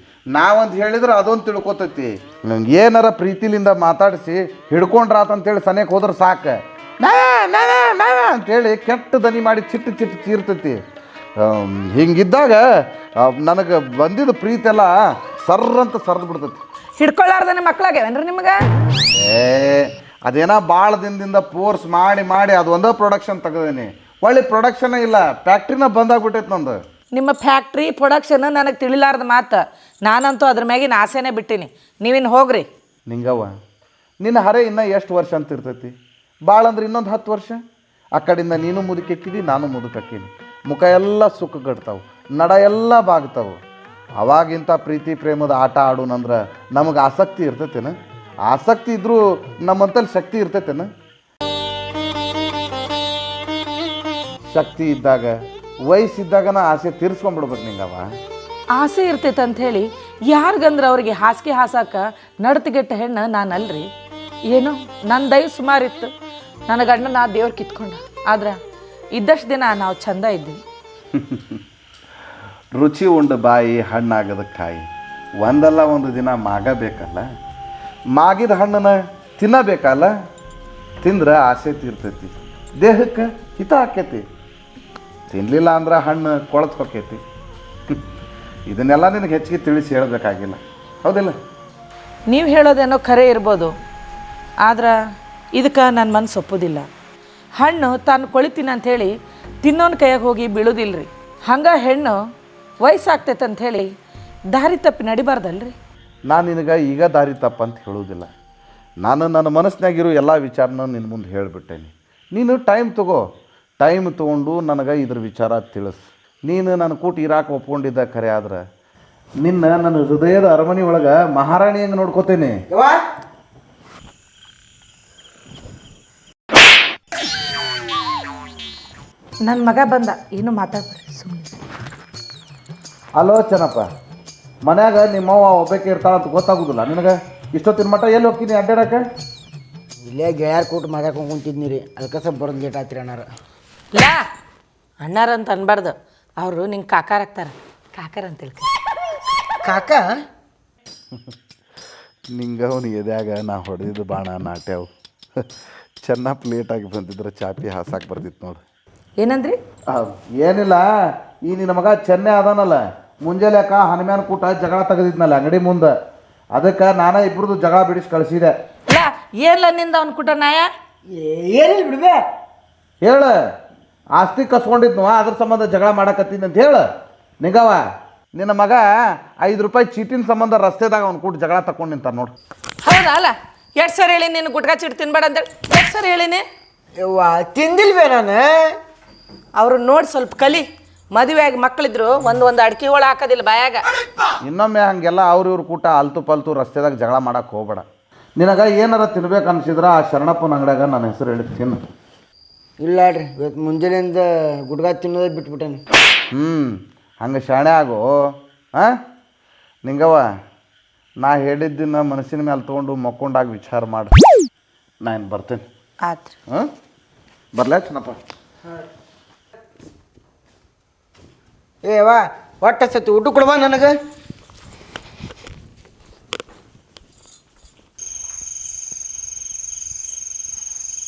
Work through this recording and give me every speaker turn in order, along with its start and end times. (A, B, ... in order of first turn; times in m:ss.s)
0:00.4-0:10.8 A
0:11.4-0:12.6 A
0:13.2-0:16.6 A
0:17.0-0:18.6 B
0:19.2-0:26.8 A
0:27.2-0:32.7 B
0:33.1-0:33.5 A
0:34.2-0:35.9 A
0:36.5-0:37.6 A
0:38.2-0:43.6 A
0:44.2-0:48.0 A
0:48.5-0:50.9 A
0:54.5-0:55.3 A
0:55.9-0:58.1 A
0:58.8-1:03.9 B
1:04.5-1:06.1 B
1:06.7-1:08.6 B
1:09.1-1:10.6 B
1:12.8-1:14.8 A
1:15.4-1:17.2 A
1:18.2-1:20.1 A
1:21.0-1:24.2 A
1:25.3-1:27.2 A
1:28.7-1:31.3 A
1:32.3-1:33.7 B
1:34.6-1:35.0 B
1:35.5-1:36.9 B
1:37.6-1:42.2 B
1:42.8-1:43.9 B
1:44.5-1:45.7 B
1:46.3-1:48.3 A
1:49.0-1:53.2 A
1:53.8-1:58.6 A
1:59.4-2:02.6 A
2:02.7-2:03.0 C
2:09.5-2:11.5 B
2:13.2-2:13.9 A
2:14.7-2:19.1 A
2:20.0-2:23.3 C
2:23.9-2:24.2 B
2:25.0-2:28.7 B
2:29.6-2:30.1 C
2:32.4-2:34.9 A
2:36.0-2:38.6 A
2:39.2-2:39.6 B
2:39.9-2:40.9 A
2:41.5-2:45.9 A
2:46.6-2:48.5 A
2:48.9-2:50.7 B
2:51.1-2:52.2 C
2:53.0-2:53.3 A
2:54.2-2:56.9 A
2:57.4-2:57.8 A
2:58.4-2:58.9 A
2:59.4-3:02.3 A
3:02.8-3:06.4 B
3:07.0-3:08.8 C
3:09.6-3:13.8 B
3:14.5-3:17.8 A
3:18.4-3:21.8 A
3:22.8-3:25.8 C
3:26.3-3:28.1 A
3:29.9-3:30.3 A
3:31.2-3:34.1 A
3:35.0-3:35.6 A
3:36.0-3:36.3 B
3:37.6-3:38.2 A
3:41.8-3:44.0 C